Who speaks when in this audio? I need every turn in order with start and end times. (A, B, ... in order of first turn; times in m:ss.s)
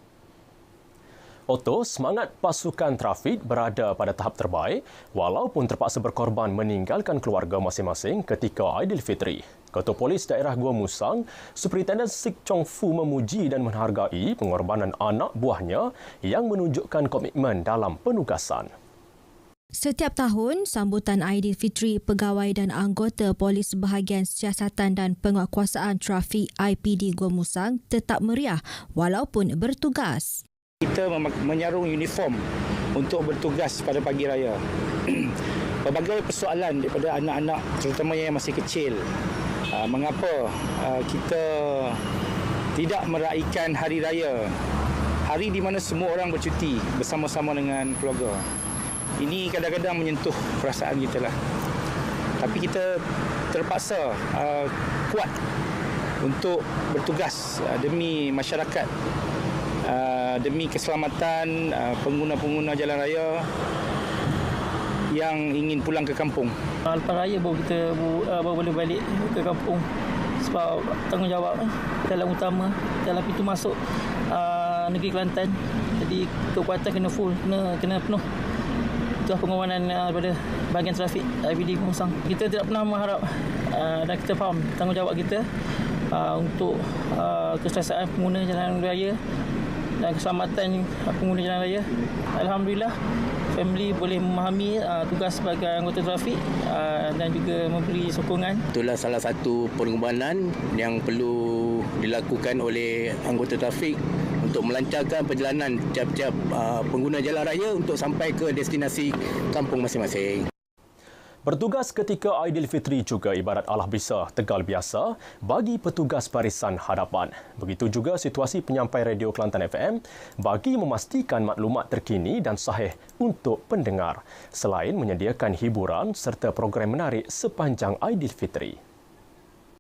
0:01.5-0:18.7 A
0:19.8-0:30.2 B
0:30.8-0:32.4 C
0:33.0-0:35.3 C
0:35.8-0:39.0 C
0:39.8-0:42.0 C
0:42.8-0:44.5 C
0:45.3-0:48.4 C
0:49.2-0:51.3 C
0:52.4-0:53.0 C
0:53.5-0:55.3 C
0:56.2-0:58.9 C
0:59.8-1:03.5 C
1:05.1-1:06.5 C
1:06.8-1:09.8 D
1:10.4-1:13.8 D
1:14.3-1:18.2 D
1:19.2-1:25.5 D
1:26.1-1:29.2 D
1:30.0-1:33.0 D
1:33.5-1:38.6 D
1:38.7-1:50.5 E
1:51.5-2:08.8 A